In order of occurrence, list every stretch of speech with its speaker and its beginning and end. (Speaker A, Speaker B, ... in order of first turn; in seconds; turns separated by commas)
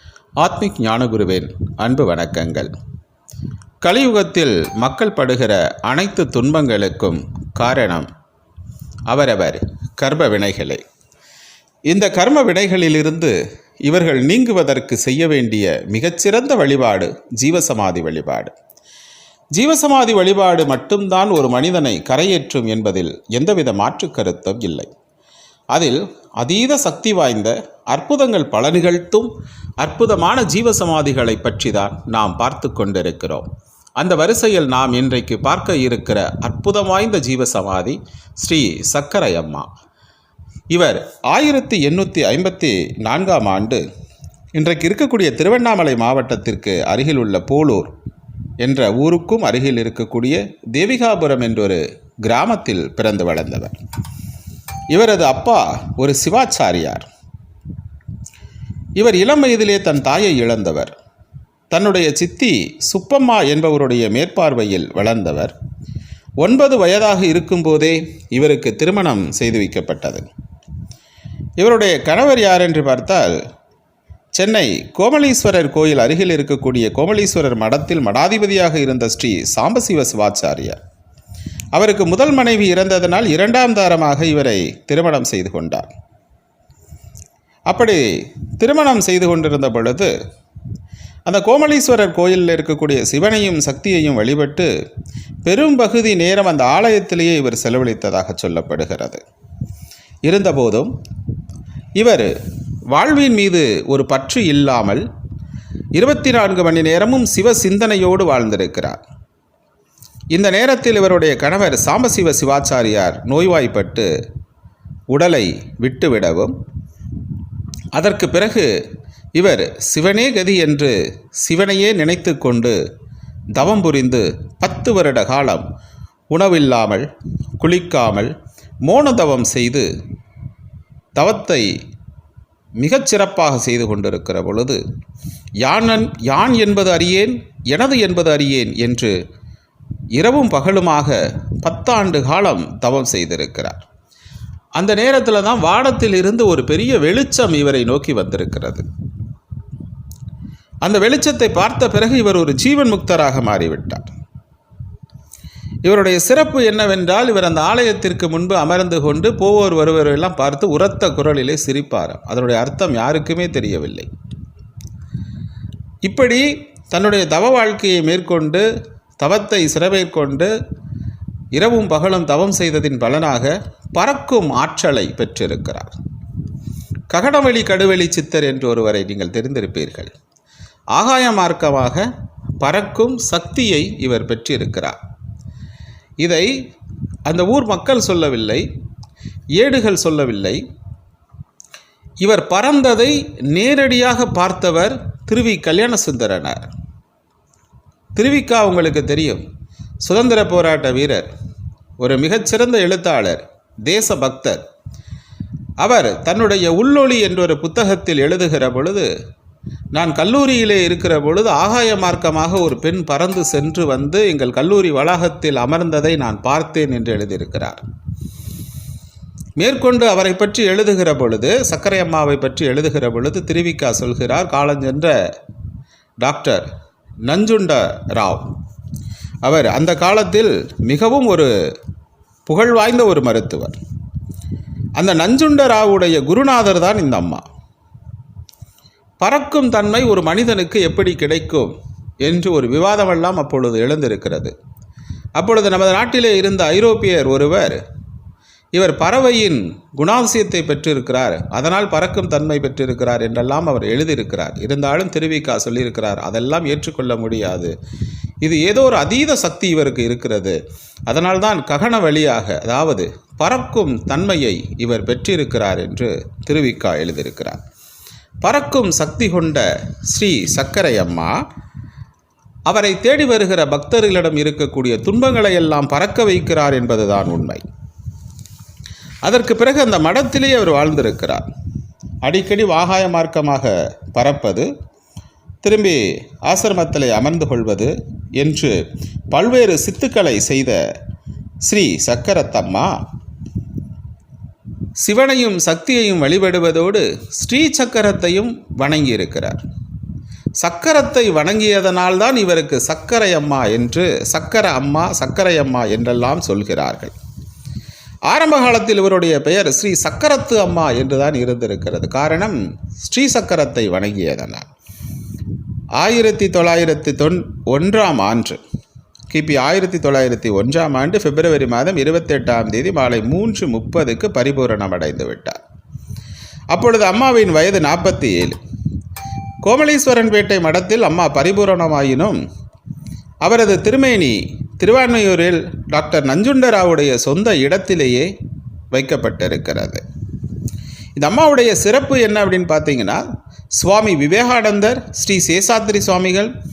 Speaker A: 0.4-2.7, Speaker A: 3.8-8.1, Speaker A: 9.1-10.8, Speaker A: 11.9-18.6, Speaker A: 19.5-24.9, Speaker A: 25.7-39.7, Speaker A: 40.7-43.8, Speaker A: 44.5-47.9, Speaker A: 48.6-53.8, Speaker A: 54.9-57.1, Speaker A: 59.0-60.9, Speaker A: 61.7-65.5, Speaker A: 66.4-70.3, Speaker A: 71.6-73.4, Speaker A: 74.3-80.8, Speaker A: 81.7-85.9, Speaker A: 87.7-90.1, Speaker A: 91.3-94.7, Speaker A: 95.4-99.2, Speaker A: 100.2-100.9, Speaker A: 102.0-102.3, Speaker A: 102.9-105.0, Speaker A: 106.0-109.0, Speaker A: 110.3-114.1, Speaker A: 115.1-116.5, Speaker A: 117.9-118.8, Speaker A: 119.3-122.8, Speaker A: 123.5-125.7, Speaker A: 126.3-127.1, Speaker A: 127.6-128.3, Speaker A: 128.8-129.9, Speaker A: 131.2-131.7, Speaker A: 132.8-134.8, Speaker A: 135.6-139.2, Speaker A: 140.2-143.8, Speaker A: 144.8-148.9, Speaker A: 150.8-154.1, Speaker A: 155.8-164.1, Speaker A: 166.0-168.7, Speaker A: 169.2-170.5, Speaker A: 171.5-175.9, Speaker A: 177.1-180.1, Speaker A: 180.9-182.1, Speaker A: 182.6-185.0, Speaker A: 186.2-186.5, Speaker A: 187.3-188.7, Speaker A: 189.6-190.6, Speaker A: 192.2-196.7, Speaker A: 198.2-199.4, Speaker A: 200.0-201.3, Speaker A: 202.0-204.6, Speaker A: 205.8-209.1, Speaker A: 209.9-217.8, Speaker A: 219.6-225.2, Speaker A: 226.2-226.7, Speaker A: 227.2-228.5, Speaker A: 229.4-231.5, Speaker A: 232.5-233.8, Speaker A: 235.0-237.4, Speaker A: 239.2-244.6, Speaker A: 245.4-247.8, Speaker A: 248.7-257.7, Speaker A: 258.4-267.6, Speaker A: 268.4-271.4, Speaker A: 272.7-277.6, Speaker A: 279.2-281.5, Speaker A: 282.2-284.7, Speaker A: 285.6-288.8, Speaker A: 289.3-290.8, Speaker A: 291.6-292.9, Speaker A: 295.0-299.6, Speaker A: 300.6-307.1, Speaker A: 308.3-314.7, Speaker A: 316.0-318.6, Speaker A: 319.3-325.6, Speaker A: 326.7-328.6, Speaker A: 329.6-332.4, Speaker A: 333.4-338.3, Speaker A: 338.9-340.0, Speaker A: 341.2-346.5